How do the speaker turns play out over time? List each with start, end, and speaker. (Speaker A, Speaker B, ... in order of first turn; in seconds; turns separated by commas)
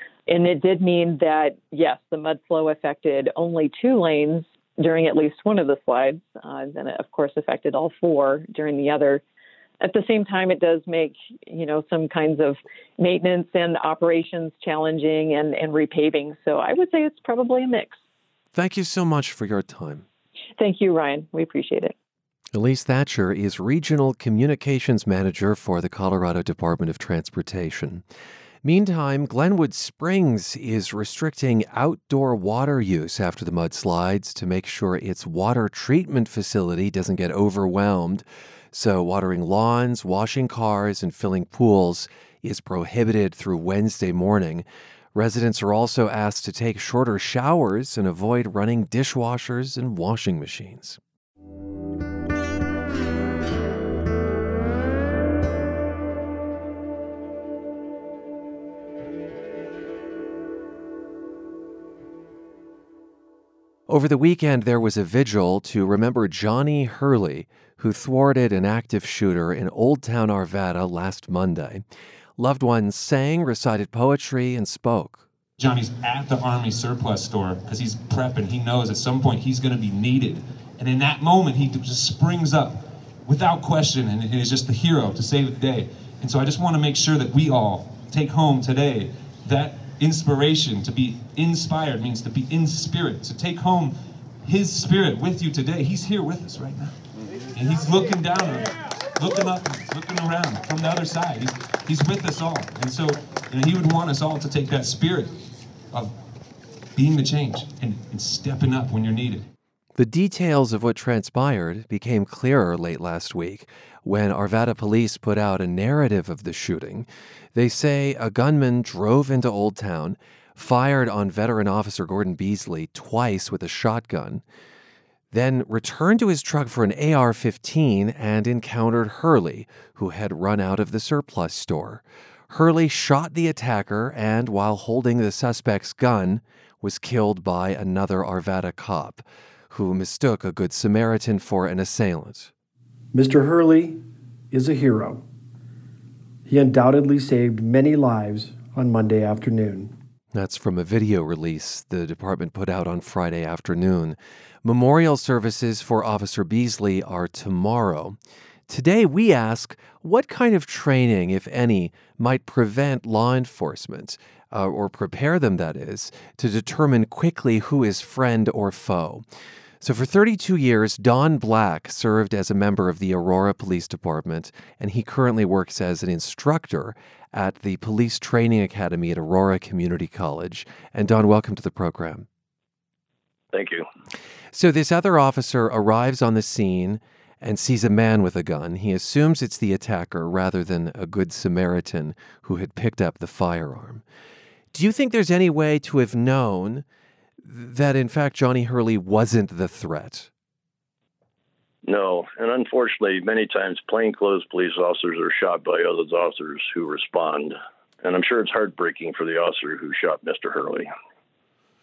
Speaker A: 0.3-9.2, Speaker A: 9.8-18.0, Speaker B: 18.5-20.1, Speaker A: 20.6-21.9, Speaker B: 22.5-28.1, Speaker B: 28.6-51.0, Speaker B: 63.9-71.8, Speaker B: 72.4-75.3, Speaker C: 75.6-97.0, Speaker C: 97.5-105.4, Speaker C: 107.0-109.5, Speaker B: 110.0-124.4, Speaker B: 125.3-142.5, Speaker D: 143.1-145.2, Speaker D: 146.5-149.9, Speaker B: 150.3-158.2, Speaker B: 158.7-169.2, Speaker B: 169.8-182.3, Speaker E: 183.5-183.9, Speaker B: 184.5-194.0, Speaker B: 194.7-196.8, Speaker B: 197.4-200.3, Speaker E: 201.8-210.9